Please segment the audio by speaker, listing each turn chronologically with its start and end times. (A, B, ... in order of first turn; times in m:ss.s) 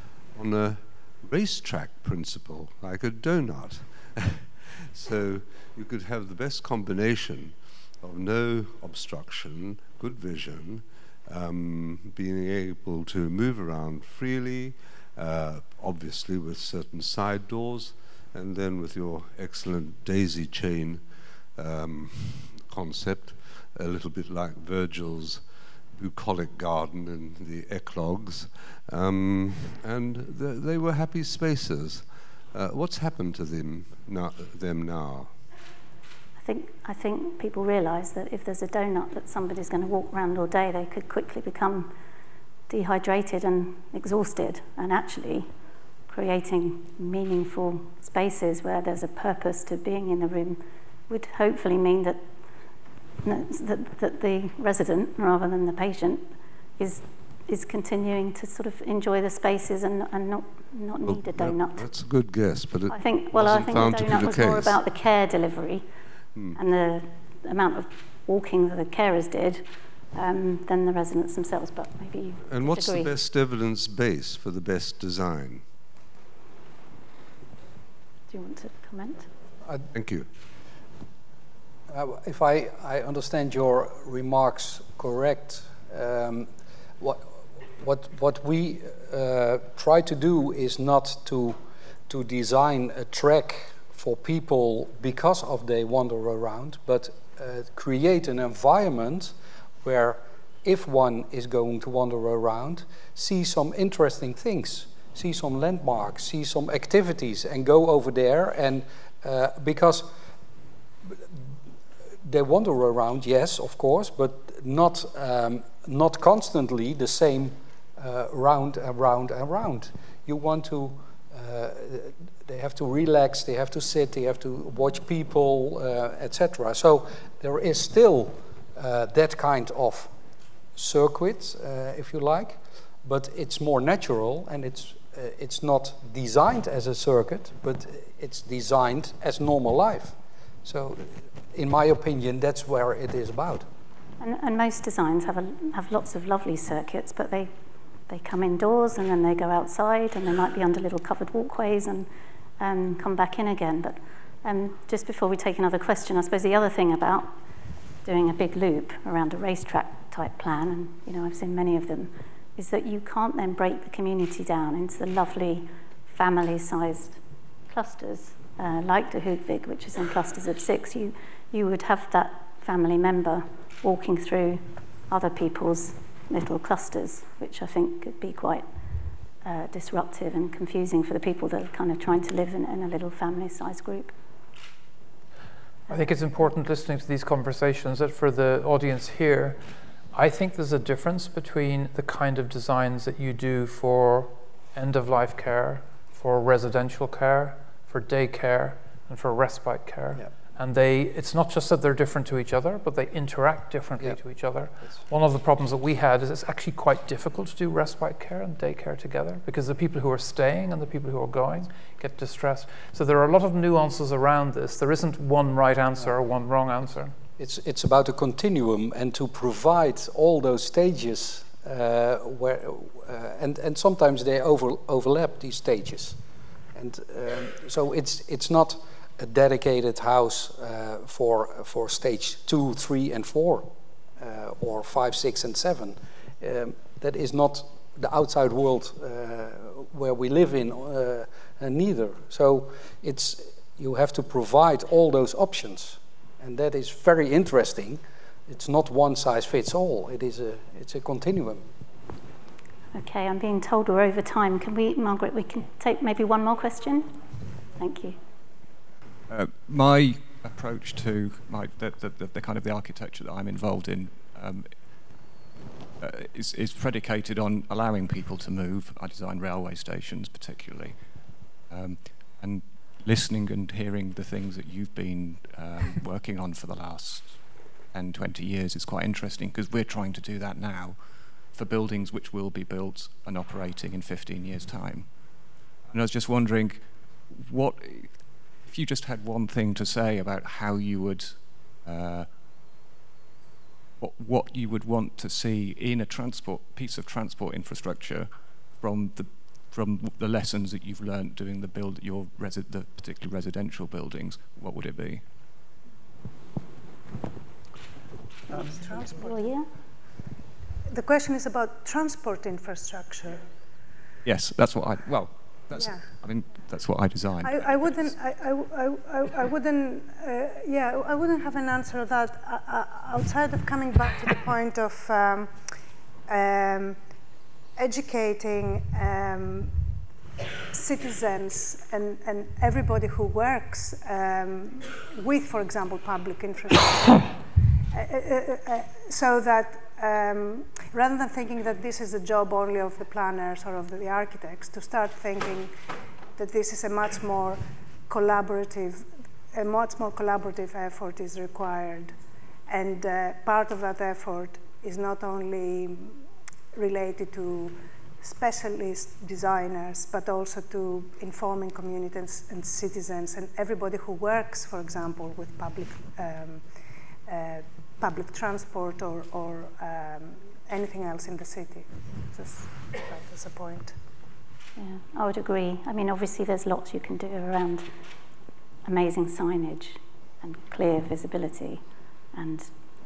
0:00.3-0:35.3 A
0:36.4-0:41.9 B
0:42.7-0:45.5 B
0:46.1-0:52.2 B
0:53.2-1:01.9 B
1:01.0-1:04.8 A
1:02.9-1:05.8 B
1:06.5-1:13.1 B
1:12.4-1:15.6 A
1:18.3-1:19.3 B
1:19.9-1:20.3 A
1:21.9-1:31.6 C
1:32.1-1:50.1 C
1:52.2-2:10.1 C
2:10.8-2:23.6 C
2:24.2-2:27.5 B
2:28.1-2:32.1 B
2:32.6-2:37.3 B
2:38.0-2:58.6 B
2:59.4-3:04.1 B
3:05.9-3:09.6 D
3:10.1-3:37.1 D
3:37.4-3:46.2 C
3:46.7-4:11.6 C
4:12.9-4:17.1 B
4:17.8-4:18.2 B
4:19.3-4:24.8 E
4:26.0-4:31.1 E
4:31.7-4:41.0 E
4:41.5-4:45.1 E
4:45.9-4:52.3 E
4:54.0-5:05.2 E
5:08.5-5:09.5 F
5:09.2-5:09.6 B
5:10.9-5:13.4 F
5:14.2-5:18.1 E
5:15.7-5:16.1 F
5:17.4-5:25.7 F
5:26.3-5:27.0 F
5:27.8-5:29.7 F
5:30.7-5:37.4 F
5:37.9-5:45.7 F
5:46.4-5:52.2 F
5:52.7-5:56.2 F
5:56.7-6:06.6 F
6:07.2-6:13.9 F
6:14.8-6:17.9 B
6:18.8-6:21.8 B
6:22.3-6:22.7 B